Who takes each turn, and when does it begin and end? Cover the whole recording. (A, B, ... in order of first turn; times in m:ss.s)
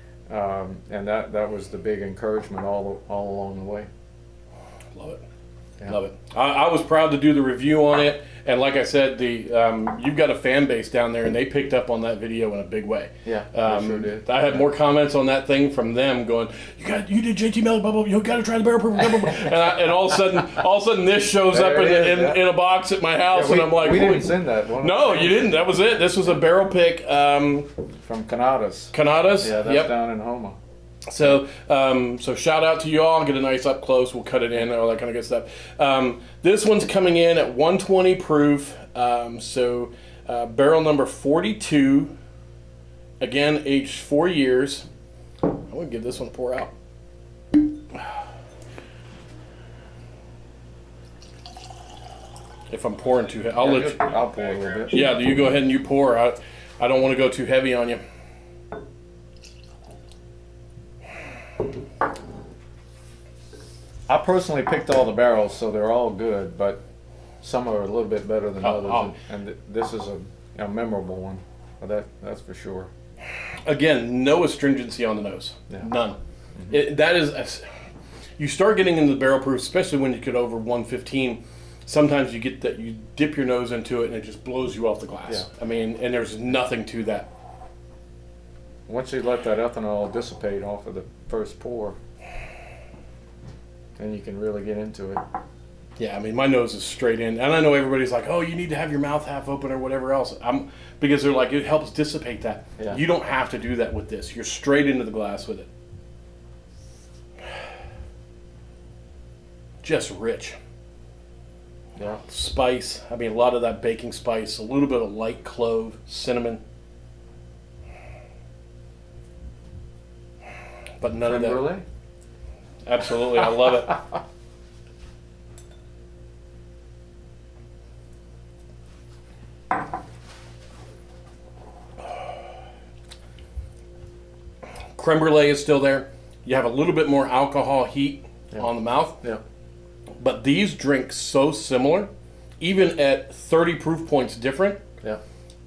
0:00.3-0:03.9 A
0:05.0-0:05.2 B
0:05.9-0:27.7 B
0:13.2-0:14.6 A
0:21.5-0:22.4 A
0:23.3-0:25.6 A
0:28.0-0:30.6 A
0:28.9-0:29.9 B
0:31.1-0:42.1 B
0:43.2-0:44.9 B
0:45.4-0:46.7 B
0:52.7-0:54.0 B
0:53.6-0:55.1 A
0:54.9-0:58.0 B
1:04.1-1:06.8 A
1:07.4-1:12.9 A
1:08.6-1:09.2 B
1:13.7-1:17.7 B
1:18.4-1:27.3 B
1:28.9-1:32.0 A
1:34.0-1:35.2 A
1:36.0-1:45.7 B
1:49.8-1:50.6 B
1:52.0-1:52.2 A
1:52.3-1:56.6 B
2:01.0-2:01.7 B
2:01.2-2:01.8 A
2:02.9-2:04.0 B
2:15.0-2:19.2 B
2:20.2-2:24.8 B